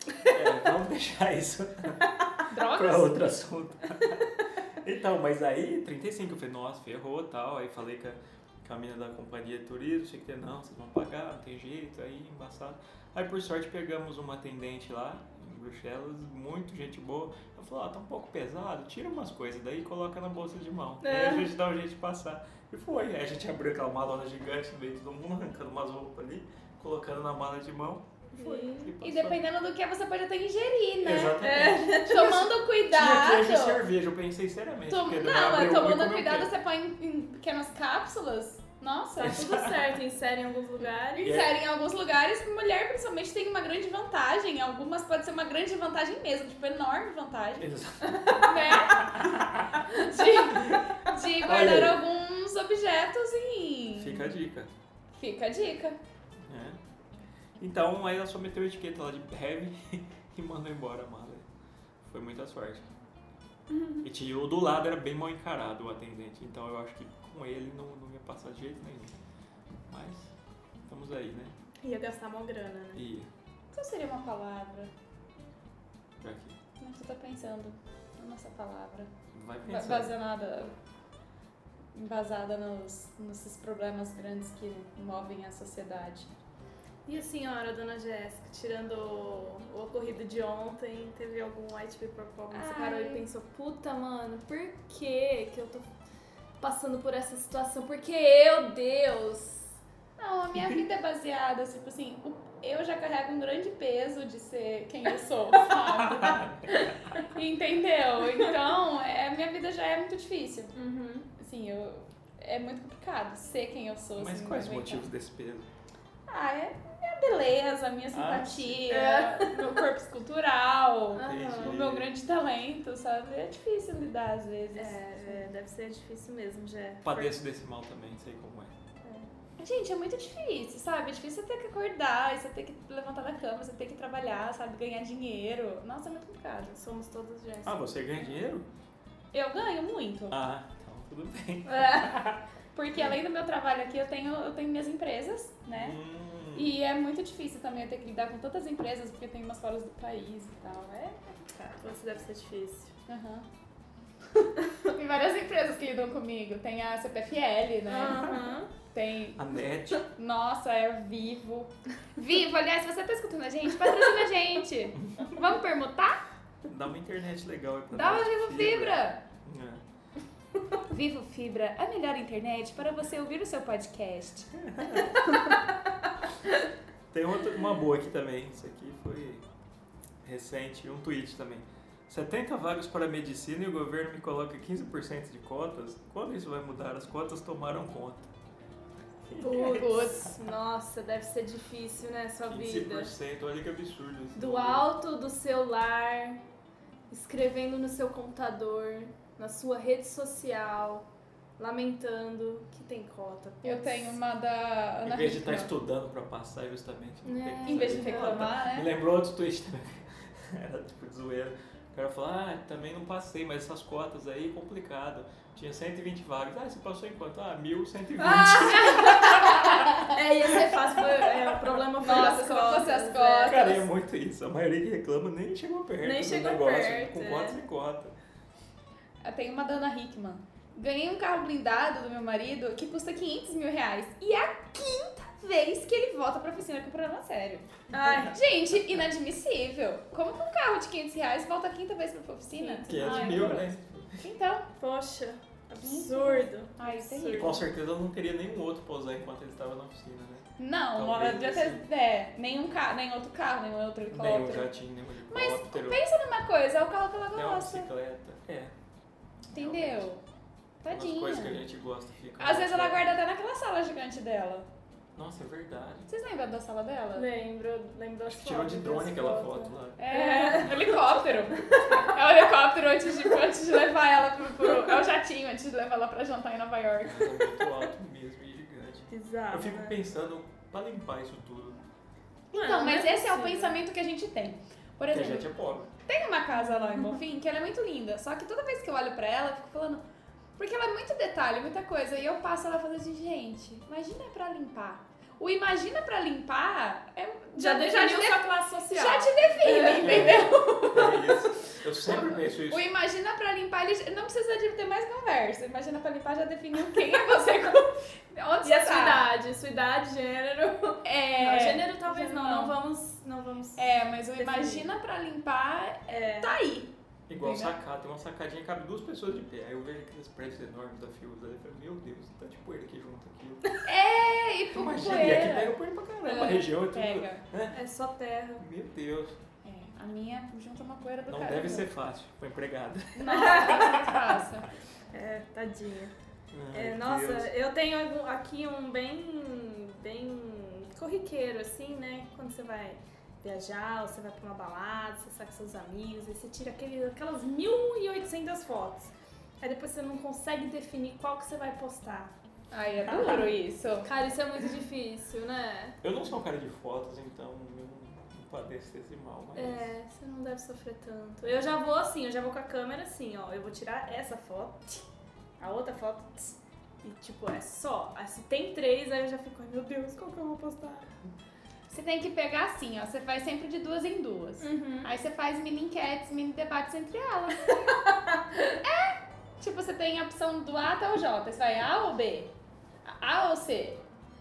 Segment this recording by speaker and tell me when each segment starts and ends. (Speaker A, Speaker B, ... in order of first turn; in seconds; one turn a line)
Speaker A: 0.2-29.4
Speaker B: 2.5-3.1
Speaker C: 21.0-21.5
Speaker C: 28.3-28.9
Speaker B: 29.0-31.4
Speaker A: 31.0-32.0
Speaker C: 31.4-32.5
Speaker B: 32.0-33.8
Speaker A: 32.9-36.5
Speaker B: 34.9-39.4
Speaker C: 39.2-41.3
Speaker A: 39.2-39.8
Speaker B: 41.1-47.7
Speaker A: 41.2-41.5
Speaker A: 47.6-49.8
Speaker B: 48.3-49.3
Speaker B: 49.9-54.3
Speaker A: 50.5-50.8
Speaker A: 51.4-52.0
Speaker A: 54.0-54.7
Speaker B: 55.1-56.0
Speaker A: 56.5-56.8
Speaker A: 57.6-61.5
Speaker A: 62.0-62.9
Speaker C: 63.7-64.0
Speaker A: 64.0-69.1
Speaker A: 69.9-70.3
Speaker A: 70.9-71.5
Speaker C: 71.8-73.0
Speaker A: 73.0-73.3
Speaker B: 73.7-74.9
Speaker A: 76.2-76.5
Speaker B: 76.8-79.1
Speaker A: 79.3-80.1
Speaker B: 79.7-80.7
Speaker B: 81.9-86.3
Speaker C: 87.0-95.9
Speaker B: 92.5-93.2
Speaker C: 96.6-99.7
Speaker B: 100.2-110.8
Speaker A: 105.8-107.2
Speaker C: 110.7-111.3
Speaker B: 111.4-115.1
Speaker A: 114.2-115.7
Speaker B: 116.3-125.4
Speaker A: 118.1-118.9
Speaker C: 118.9-119.8
Speaker C: 121.1-121.8
Speaker A: 121.2-122.1
Speaker C: 124.8-127.4
Speaker A: 127.0-128.7
Speaker C: 129.0-129.3
Speaker B: 129.6-136.8
Speaker C: 136.8-138.3
Speaker A: 137.6-138.7
Speaker B: 139.3-140.4
Speaker A: 140.3-142.4
Speaker C: 141.7-142.2
Speaker B: 142.8-146.0
Speaker A: 145.7-146.7
Speaker B: 146.5-151.2
Speaker C: 151.5-152.9
Speaker B: 153.1-153.5
Speaker B: 154.8-159.4
Speaker C: 157.9-158.7
Speaker A: 159.4-160.0
Speaker B: 160.1-166.2
Speaker A: 166.7-169.8
Speaker B: 167.9-169.2
Speaker B: 170.9-175.1
Speaker A: 174.6-175.2
Speaker A: 177.1-179.4
Speaker A: 180.2-188.3
Speaker A: 189.3-190.0
Speaker C: 189.4-193.1
Speaker B: 189.4-190.3
Speaker A: 192.5-194.9
Speaker C: 194.3-196.4
Speaker C: 197.1-201.1
Speaker C: 201.6-204.1
Speaker B: 203.6-205.7
Speaker A: 205.0-221.4
Speaker C: 207.2-208.5
Speaker B: 207.7-208.9
Speaker C: 218.2-223.7
Speaker B: 218.4-220.2
Speaker B: 222.0-223.8
Speaker A: 223.5-228.1
Speaker C: 226.0-227.6
Speaker B: 229.2-244.7
Speaker C: 237.9-238.4
Speaker C: 242.5-243.6
Speaker A: 242.9-244.2
Speaker C: 244.8-247.7
Speaker B: 245.8-247.6
Speaker A: 247.4-251.8
Speaker B: 250.6-254.7
Speaker A: 254.1-256.0
Speaker B: 255.3-257.9
Speaker A: 257.3-258.7
Speaker B: 259.5-260.2
Speaker A: 259.5-260.1
Speaker B: 260.8-261.6
Speaker A: 260.9-263.1
Speaker B: 262.4-264.7
Speaker A: 265.1-266.1
Speaker B: 266.1-267.3
Speaker C: 267.1-272.1
Speaker A: 268.2-270.0
Speaker B: 270.0-277.6
Speaker A: 277.0-281.8
Speaker C: 279.1-280.0
Speaker C: 282.5-283.8
Speaker B: 282.5-285.5
Speaker A: 285.1-285.9
Speaker B: 286.1-290.0
Speaker B: 290.6-301.1
Speaker C: 297.6-301.4
Speaker A: 299.9-302.9
Speaker B: 302.1-309.2
Speaker C: 308.6-313.9
Speaker B: 311.0-312.8
Speaker B: 313.8-317.7
Speaker C: 314.4-314.9
Speaker C: 316.1-316.6
Speaker A: 317.3-323.7
Speaker B: 323.8-327.4
Speaker A: 324.7-327.8
Speaker C: 325.1-325.5
Speaker C: 327.7-328.6
Speaker A: 328.6-329.4
Speaker B: 329.6-331.9
Speaker A: 331.3-334.1
Speaker B: 333.1-334.7
Speaker C: 333.3-334.0
Speaker C: 335.1-336.1
Speaker A: 336.5-337.5
Speaker C: 336.7-352.3
Speaker B: 352.7-354.1
Speaker C: 354.0-356.0
Speaker A: 356.0-359.9
Speaker C: 359.6-365.1
Speaker C: 365.6-371.1
Speaker B: 371.9-377.8
Speaker C: 374.6-375.1
Speaker B: 378.8-382.5
Speaker B: 383.1-384.0